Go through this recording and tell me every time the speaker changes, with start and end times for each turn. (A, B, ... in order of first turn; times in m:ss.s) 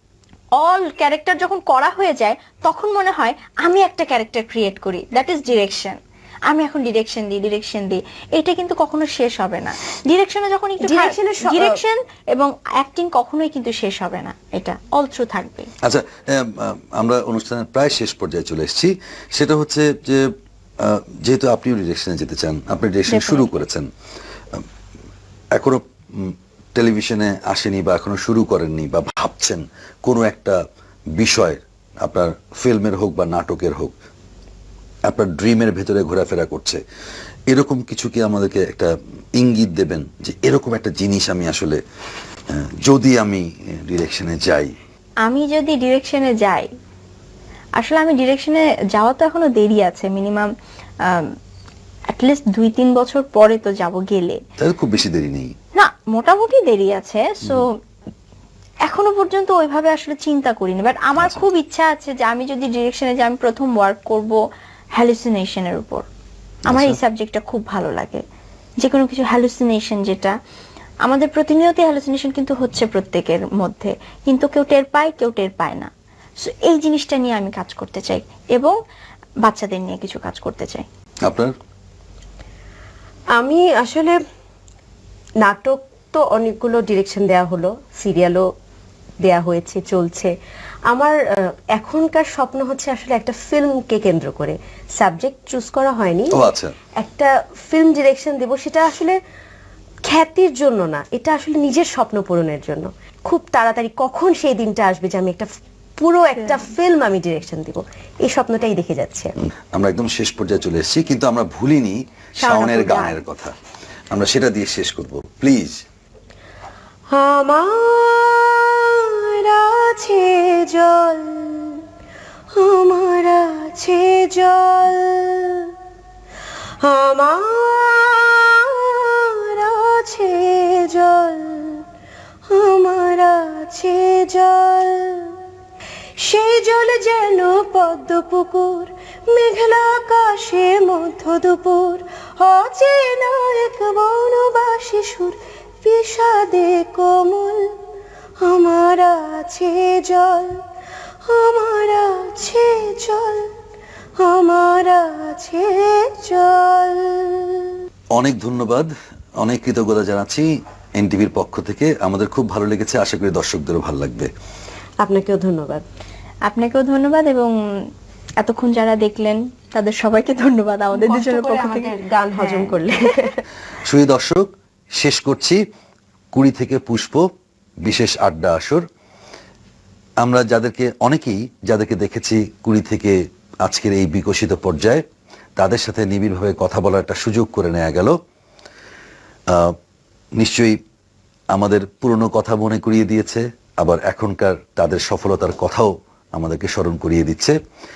0:00.6-0:15.7 A
0:10.8-0:11.8 B
0:15.8-0:23.9 C
0:23.1-0:23.5 A
0:25.6-0:30.6 C
0:31.2-0:33.9 C
0:35.1-0:36.8 C
0:37.5-0:41.8 C
0:42.5-0:44.7 C
0:45.2-0:46.7 A
0:47.8-0:50.5 A
0:51.0-0:51.3 A
0:52.1-0:54.4 A
0:54.6-0:55.5 C
0:55.8-0:57.7 A
0:58.9-1:04.4 A
1:04.9-1:06.0 A
1:06.7-1:07.0 C
1:06.7-1:08.2 A
1:08.8-1:10.3 A
1:11.0-1:18.8 A
1:19.4-1:20.8 A
1:21.3-1:21.5 C
1:23.4-1:24.2 B
1:25.4-1:28.4 B
1:29.2-1:30.3 B
1:30.9-1:31.2 B
1:31.7-1:36.4 B
1:36.3-1:36.7 C
1:37.0-1:39.2 B
1:40.1-1:45.4 B
1:46.0-1:49.3 B
1:46.4-1:46.7 A
1:49.7-1:53.5 C
1:52.4-1:53.2 A
1:54.1-1:55.8 C
1:57.1-2:01.8 B
2:02.6-2:05.7 B
2:06.8-2:11.8 B
2:12.5-2:15.3 B
2:16.2-2:27.7 B
2:28.4-2:30.6 B
2:31.3-2:33.5 B
2:34.2-2:37.7 B
2:38.1-2:44.3 C
2:45.0-2:45.8 B
2:46.5-2:47.5 A
2:48.4-2:52.9 A
2:50.9-2:53.4 B
2:53.8-2:55.6 C
2:56.3-2:57.2 C
2:57.8-2:58.8 C
3:00.2-3:05.0 C
3:05.6-3:08.2 C
3:09.5-3:09.8 C
3:10.4-3:10.8 C
3:11.5-3:17.6 C